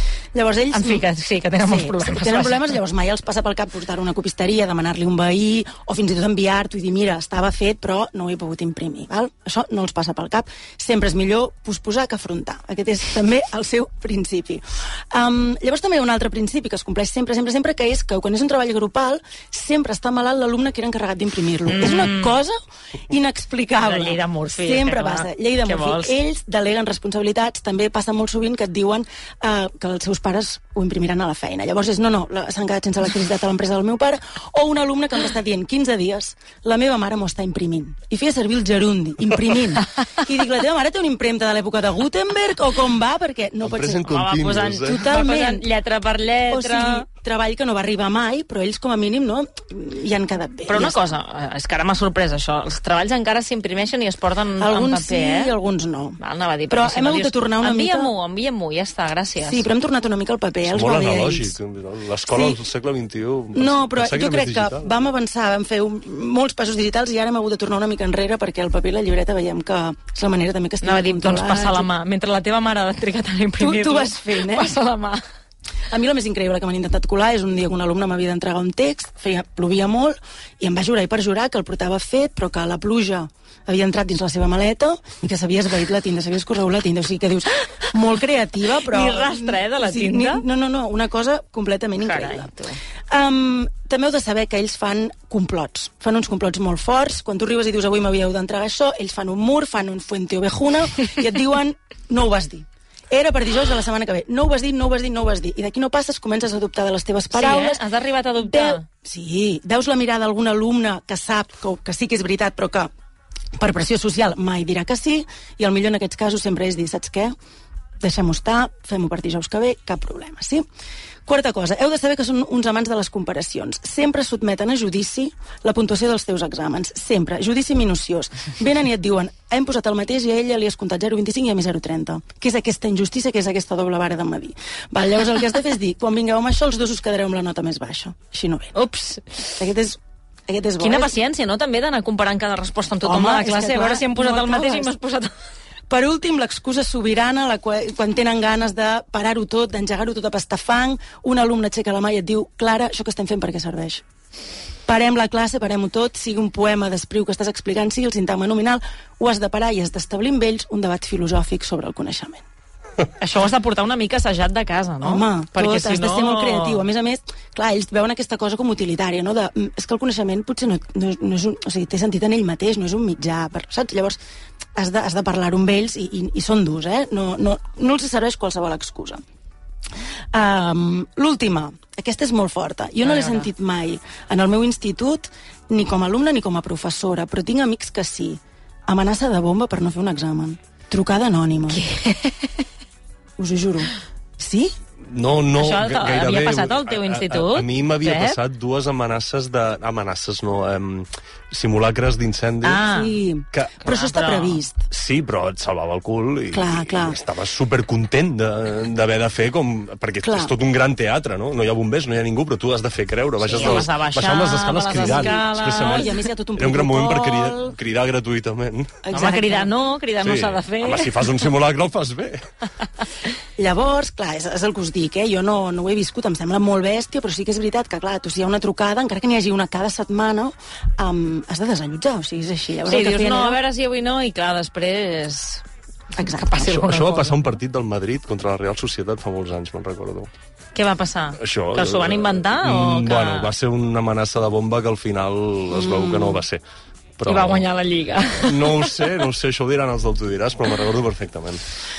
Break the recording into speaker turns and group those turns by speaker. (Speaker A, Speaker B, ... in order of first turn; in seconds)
Speaker A: 0.3-1.1, 1.6-22.6, 23.1-44.1, 44.8-45.7, 46.5-51.0, 54.6-58.1, 59.4-61.5, 62.3-62.6, 63.5-71.9, 73.6-74.7, 75.9-92.5, 93.1-107.8, 108.4-112.9, 113.6-117.3, 118.0-120.6, 121.2-138.7, 139.6-141.2, 143.0-144.9, 145.9-154.0, 154.8-162.4, 165.0-174.2, 174.7-179.2, 180.3-191.8, 193.4-194.8, 202.8-204.9, 206.5-207.2, 210.2-210.5, 214.9-217.8, 219.0-219.7, 223.6-233.6, 236.2-236.9
Speaker B: 0.7-2.8, 21.6-22.4, 23.8-26.1, 44.0-47.0, 50.6-55.5, 56.2-59.6, 70.8-75.2, 88.8-90.4, 92.0-92.8, 107.3-108.8, 138.7-139.6, 140.8-145.3, 163.2-166.8, 183.0-183.5, 191.7-192.5, 195.6-198.4, 202.6-203.2, 203.8-204.6, 213.4-216.2, 219.1-221.2, 232.8-235.6, 236.2-237.4, 240.7-243.5, 245.8-246.3, 247.2-249.2
Speaker C: 43.6-45.1, 60.6-64.9, 195.0-202.8, 203.5-203.8, 204.9-219.0, 220.2-222.4, 236.6-240.3, 241.3-246.6, 247.2-247.6, 248.4-251.6